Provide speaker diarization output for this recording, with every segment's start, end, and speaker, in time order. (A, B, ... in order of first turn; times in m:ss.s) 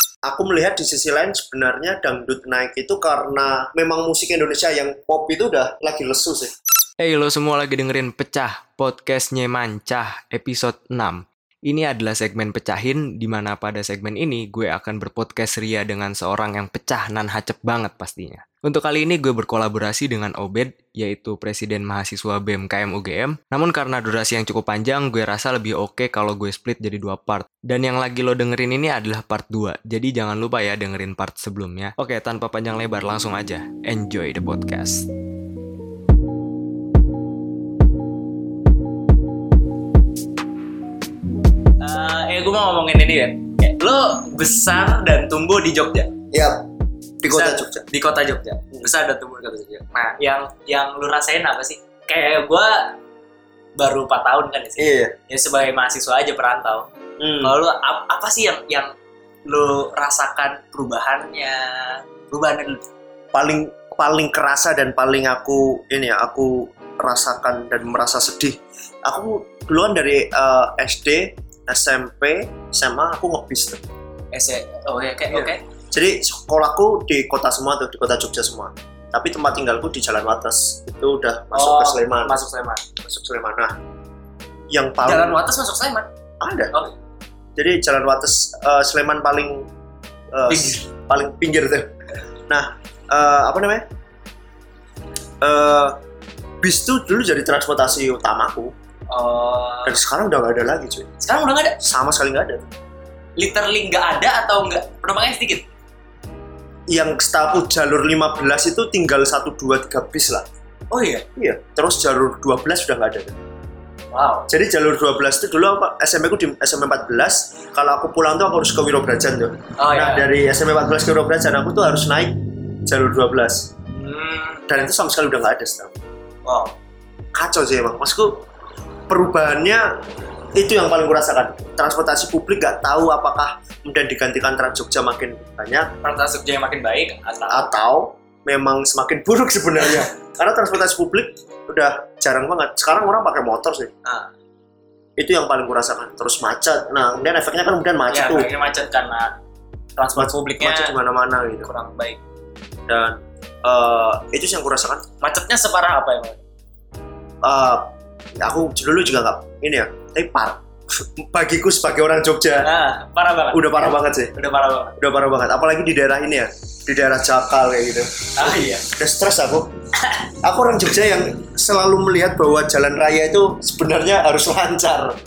0:00.2-0:06.5 A
0:07.0-0:35.1 B
0:41.8-0:46.1 C
0:46.3-0:46.6 A
0:47.2-0:47.8 A
0:47.3-0:53.0 C
0:53.8-0:56.9 C
0:54.8-0:55.1 A
0:57.2-0:57.6 A
0:57.4-0:58.9 C
0:59.5-1:02.8 C
1:03.3-1:13.8 A
1:14.3-1:15.6 C
1:15.3-1:22.4 A
1:21.6-1:22.8 C
1:23.0-1:23.7 A
1:24.7-1:25.4 A
1:25.1-1:26.1 C
1:26.4-1:26.7 A
1:27.6-1:29.7 A
1:30.3-1:31.9 A
1:30.5-1:30.8 C
1:32.5-1:33.8 A
1:35.4-1:36.0 A
1:36.6-1:38.7 A
1:39.1-1:40.0 C
1:39.8-1:41.1 A
1:41.2-1:41.8 C
1:41.8-1:42.7 A
1:43.4-1:45.6 C
1:46.9-1:50.4 A
1:50.9-1:51.2 C
1:51.4-1:53.4 A
1:54.1-1:54.5 C
1:54.5-2:03.7 A
1:59.8-2:00.3 C
2:03.9-2:04.6 C
2:04.7-2:05.9 A
2:06.4-2:06.7 C
2:07.4-2:08.4 A
2:09.1-2:09.9 A
2:10.6-2:15.9 A
2:16.0-2:17.7 C
2:17.5-2:23.9 A
2:25.2-2:28.5 A
2:28.1-2:29.3 C
2:30.0-2:30.9 C
2:30.2-2:31.7 A
2:31.6-2:32.2 C
2:32.9-2:35.0 A
2:35.2-2:36.4 C
2:37.4-2:42.7 A
2:42.6-2:43.6 C
2:43.5-2:44.3 A
2:44.4-2:45.0 C
2:45.0-2:49.7 A
2:48.4-2:48.9 C
2:50.0-2:50.3 C
2:50.4-2:55.2 A